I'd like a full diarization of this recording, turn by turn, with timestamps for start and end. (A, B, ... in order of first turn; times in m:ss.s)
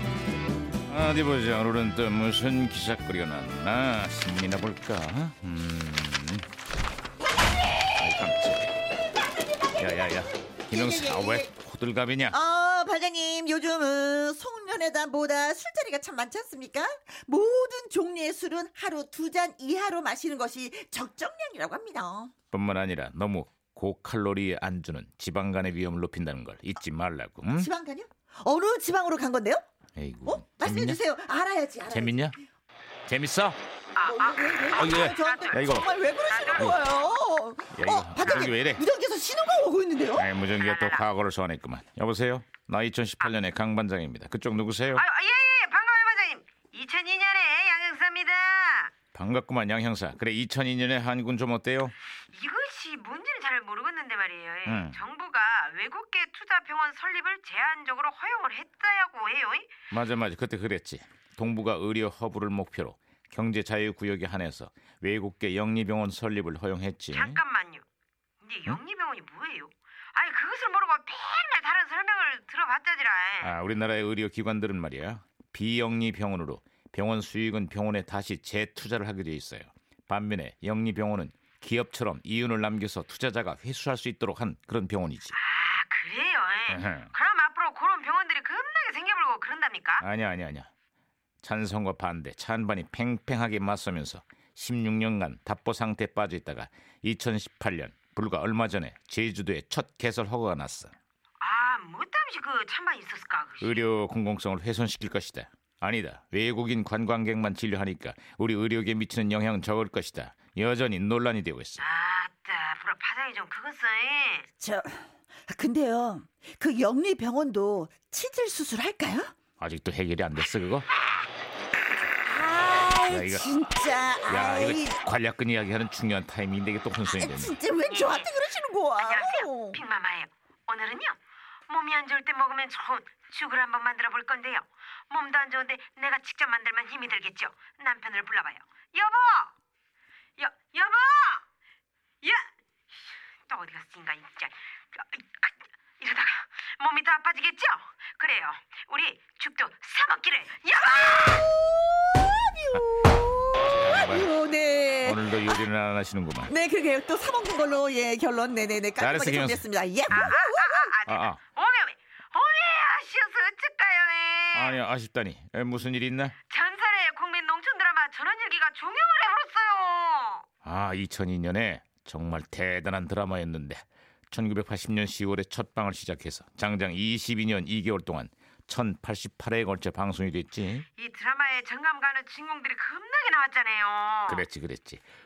0:00.9-0:06.5 A
0:07.9-0:08.7 A
0:09.6-0:10.2 B
0:09.8-0:12.4 A
0:10.7-0:11.5 B
0:12.3-0:22.3 B
0:22.5-0:27.7 A
0:27.5-0:29.6 B
0:30.0-0:31.0 A
0:30.2-0:32.3 B
0:31.9-0:32.3 A
0:33.1-0:33.6 A
0:33.9-0:36.9 C
0:34.0-0:40.3 B
0:34.7-0:35.9 A
0:37.7-0:38.8 A
0:38.2-0:38.5 C
0:40.2-0:45.0 A
0:40.6-0:41.1 C
0:44.9-0:48.9 C
0:49.1-0:52.0 A
0:52.3-0:59.7 C
0:54.6-0:55.0 A
0:59.9-1:07.4 A
1:07.1-1:07.8 C
1:08.4-1:13.5 C
1:13.4-1:25.4 A
1:25.3-1:30.0 C
1:26.7-1:27.1 A
1:30.0-1:30.7 A
1:31.4-1:40.9 A
1:41.4-1:43.8 C
1:43.6-1:51.8 A
1:51.8-1:54.5 C
1:54.6-1:59.3 B
1:59.6-2:00.9 A
2:02.2-2:05.0 B
2:03.1-2:03.5 A
2:04.2-2:07.5 A
2:07.0-2:09.8 B
2:07.8-2:08.3 C
2:09.0-2:19.5 C
2:20.4-2:21.4 C
2:22.2-2:31.5 C
2:32.2-2:35.5 B
2:33.6-2:34.3 A
2:35.0-2:36.5 A
2:36.5-2:41.0 B
2:39.0-2:40.4 A
2:40.1-2:44.8 C
2:41.1-2:41.4 A
2:44.5-2:46.4 A
2:46.5-2:50.4 C
2:50.6-3:00.8 A
3:01.0-3:04.4 C
3:04.3-3:05.0 A